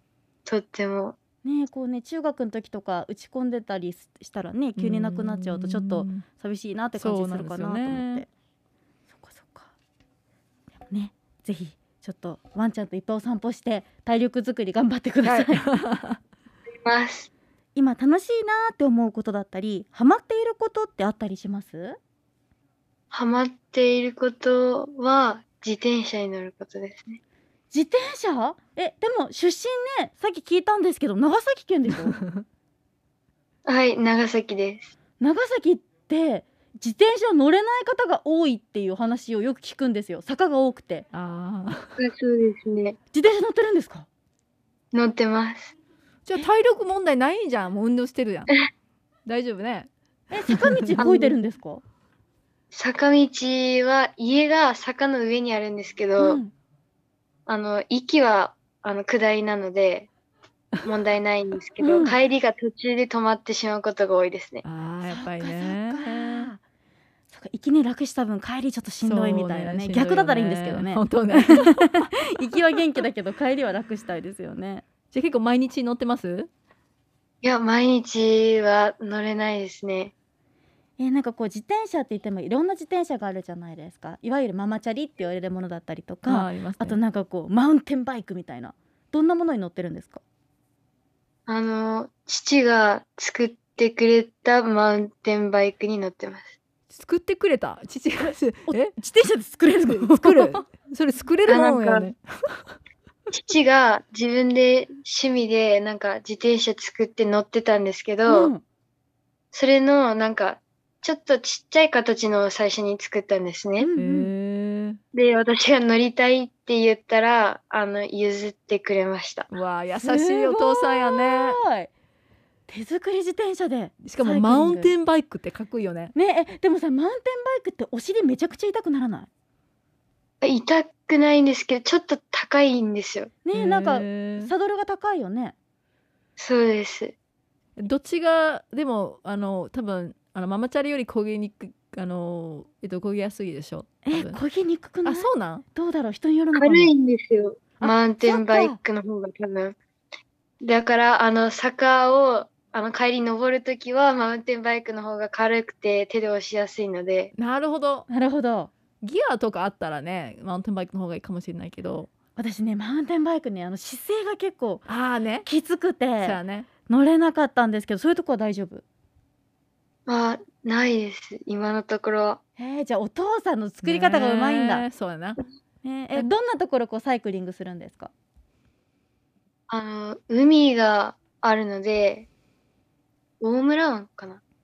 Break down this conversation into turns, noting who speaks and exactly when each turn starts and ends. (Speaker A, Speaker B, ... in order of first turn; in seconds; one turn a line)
Speaker A: 0.5-1.2
Speaker B: 1.4-8.3
Speaker C: 4.8-6.2
Speaker C: 7.0-8.2
Speaker B: 9.2-9.7
Speaker B: 10.9-15.7
Speaker C: 15.2-16.2
Speaker A: 16.8-17.3
Speaker B: 17.8-22.0
Speaker A: 23.1-27.2
Speaker B: 27.7-32.2
Speaker C: 32.2-32.4
Speaker A: 33.7-34.9
Speaker B: 35.2-41.1
Speaker C: 41.1-42.0
Speaker A: 42.0-43.0
Speaker B: 43.1-44.1
Speaker A: 44.9-45.7
Speaker C: 46.2-48.5
Speaker C: 49.3-49.9
Speaker B: 50.3-51.8
Speaker C: 50.4-50.7
Speaker A: 51.0-51.4
Speaker A: 52.7-56.4
Speaker B: 56.2-56.5
Speaker A: 57.5-60.1
Speaker A: 60.8-64.7
Speaker B: 61.8-62.2
Speaker C: 64.6-66.5
Speaker B: 65.1-66.6
Speaker B: 67.3-74.8
Speaker C: 69.0-72.1
Speaker C: 75.1-76.5
Speaker A: 77.4-80.1
Speaker B: 81.0-90.2
Speaker C: 86.3-87.0
Speaker A: 91.5-96.5
Speaker C: 96.9-99.0
Speaker B: 98.7-100.6
Speaker C: 99.8-102.7
Speaker A: 101.5-102.1
Speaker A: 103.3-108.5
Speaker B: 108.3-108.6
Speaker A: 109.5-113.9
Speaker B: 113.8-114.3
Speaker C: 114.0-115.0
Speaker A: 115.1-119.5
Speaker C: 119.5-121.6
Speaker B: 120.0-121.9
Speaker B: 122.7-124.9
Speaker C: 124.0-126.1
Speaker B: 126.1-129.3
Speaker A: 130.4-133.3
Speaker B: 133.4-135.6
Speaker C: 133.5-134.5
Speaker A: 136.4-137.2
Speaker C: 137.8-144.4
Speaker B: 144.1-146.9
Speaker C: 145.1-145.7
Speaker A: 146.5-149.8
Speaker B: 147.8-148.8
Speaker A: 150.6-157.3
Speaker C: 157.4-158.1
Speaker B: 158.1-158.7
Speaker C: 159.0-162.1
Speaker B: 162.4-164.9
Speaker C: 164.9-165.5
Speaker B: 165.4-168.8
Speaker C: 166.2-166.7
Speaker A: 170.1-172.4
Speaker B: 172.6-174.9
Speaker C: 173.8-175.4
Speaker B: 175.8-178.1
Speaker A: 179.7-182.3
Speaker A: 183.4-184.4